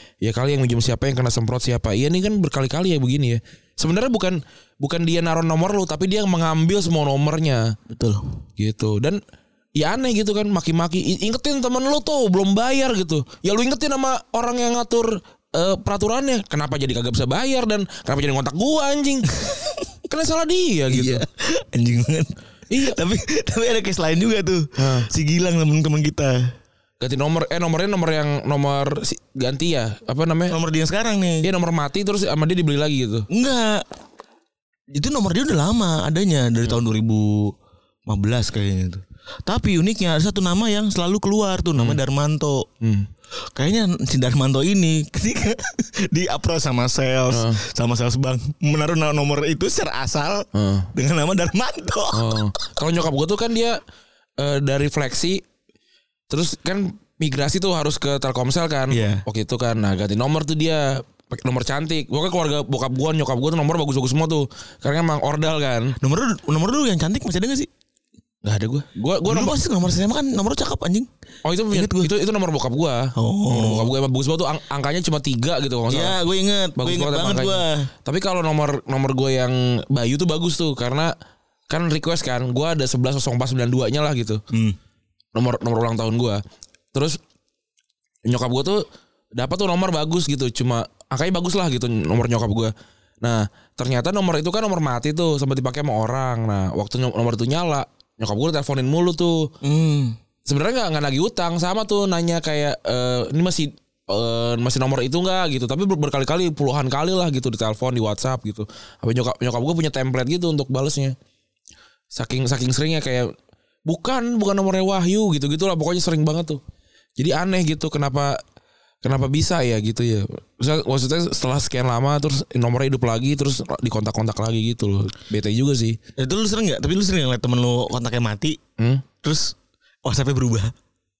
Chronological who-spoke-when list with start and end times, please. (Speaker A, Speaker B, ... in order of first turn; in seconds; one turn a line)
Speaker A: 0.2-7.7
Speaker B: 7.9-8.2
Speaker A: 8.6-9.2
Speaker A: 9.8-19.4
Speaker B: 19.4-19.7
Speaker A: 20.1-21.2
Speaker B: 20.9-22.3
Speaker A: 22.7-23.0
Speaker B: 22.8-26.5
Speaker A: 24.8-25.1
Speaker A: 27.0-30.6
Speaker B: 30.5-31.5
Speaker A: 31.4-33.3
Speaker B: 33.3-33.9
Speaker B: 34.9-37.5
Speaker B: 38.1-42.6
Speaker A: 42.8-43.1
Speaker B: 43.5-52.5
Speaker A: 47.3-47.6
Speaker A: 50.5-50.9
Speaker A: 52.1-53.8
Speaker A: 54.4-55.4
Speaker A: 56.3-66.0
Speaker B: 58.9-59.2
Speaker B: 66.0-67.7
Speaker A: 68.4-69.5
Speaker B: 69.2-71.1
Speaker A: 71.4-76.2
Speaker B: 71.7-72.1
Speaker B: 73.2-73.9
Speaker B: 75.9-77.9
Speaker A: 76.8-81.1
Speaker A: 81.7-84.4
Speaker B: 84.5-84.8
Speaker A: 85.3-86.4
Speaker A: 86.9-87.2
Speaker A: 88.3-88.8
Speaker A: 89.4-92.7
Speaker A: 93.2-99.5
Speaker B: 99.6-100.2
Speaker A: 100.5-111.2
Speaker A: 112.1-113.3
Speaker A: 113.9-116.6
Speaker A: 117.2-118.4
Speaker A: 119.0-126.0
Speaker B: 126.2-128.6
Speaker A: 128.8-129.0
Speaker B: 129.2-130.7